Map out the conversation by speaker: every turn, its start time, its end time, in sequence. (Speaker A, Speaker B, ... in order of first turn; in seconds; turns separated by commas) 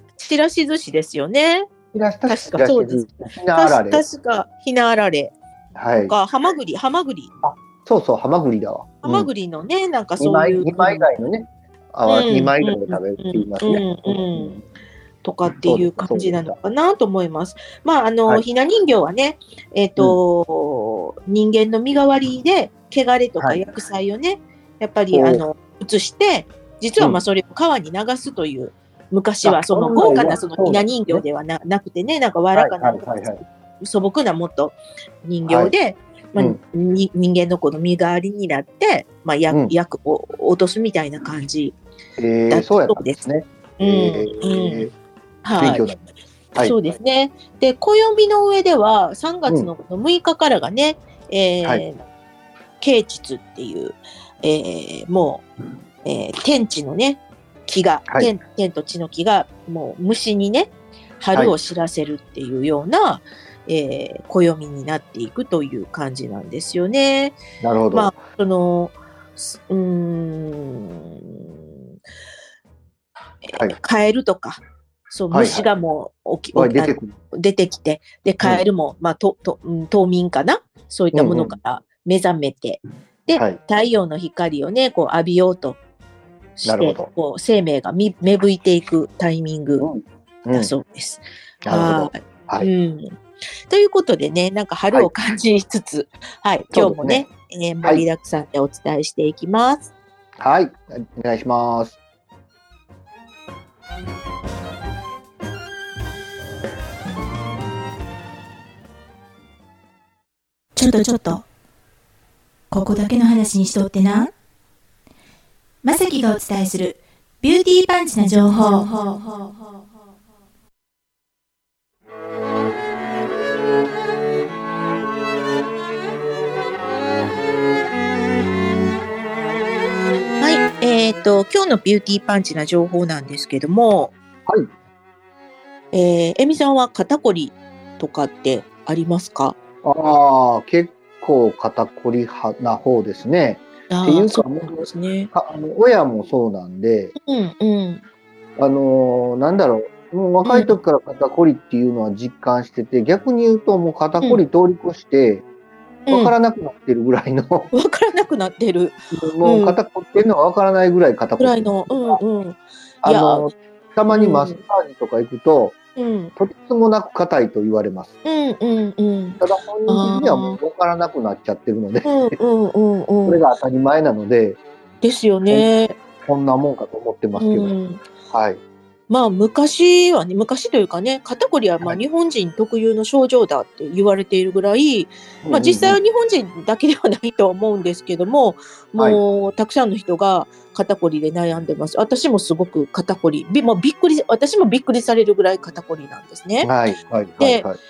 Speaker A: 0.2-1.7, Speaker B: 1.9-4.0, Speaker A: 2.3-5.3, Speaker B: 5.8-6.1, Speaker A: 6.0-7.3, Speaker B: 7.4-9.3, Speaker A: 9.0-11.1, Speaker B: 10.2-14.6, Speaker A: 12.1-14.6, Speaker A: 15.2-41.8, Speaker B: 15.6-16.5, Speaker B: 25.1-25.4, Speaker B: 29.4-31.2, Speaker B: 32.5-33.4, Speaker B: 35.5-35.7, Speaker B: 42.2-44.9, Speaker A: 42.5-43.2, Speaker A: 43.8-44.9, Speaker A: 45.4-45.8, Speaker B: 45.5-46.0, Speaker A: 46.6-52.0, Speaker A: 52.8-55.5, Speaker A: 56.0-67.4, Speaker B: 67.6-68.2, Speaker A: 67.9-71.8, Speaker A: 73.4-85.8, Speaker B: 75.3-75.7, Speaker B: 76.5-77.1, Speaker B: 81.1-81.5, Speaker A: 86.6-89.9, Speaker B: 86.6-87.1, Speaker B: 89.8-90.7, Speaker A: 90.5-99.9, Speaker B: 91.7-92.7, Speaker B: 96.7-97.2, Speaker B: 100.4-102.0, Speaker C: 110.8-111.4, Speaker C: 112.7-114.3, Speaker C: 115.8-119.5, Speaker A: 130.4-134.1, Speaker A: 135.9-139.6, Speaker B: 139.8-147.1, Speaker A: 143.9-145.3, Speaker A: 147.2-148.0, Speaker B: 148.6-155.4, Speaker A: 150.4-150.7, Speaker A: 156.1-156.3, Speaker B: 156.1-157.7, Speaker A: 157.7-159.8, Speaker B: 159.1-162.2, Speaker A: 161.4-163.5, Speaker B: 163.0-165.8, Speaker A: 164.1-164.6, Speaker A: 166.0-166.3, Speaker B: 166.4-168.1, Speaker A: 168.2-170.6, Speaker B: 169.4-172.3, Speaker A: 172.0-173.4, Speaker B: 173.2-174.6, Speaker A: 175.0-176.0, Speaker B: 176.2-177.7, Speaker A: 177.4-178.0, Speaker B: 178.3-178.6, Speaker A: 179.1-196.7, Speaker B: 185.4-186.0, Speaker B: 196.6-197.8, Speaker A: 197.4-197.7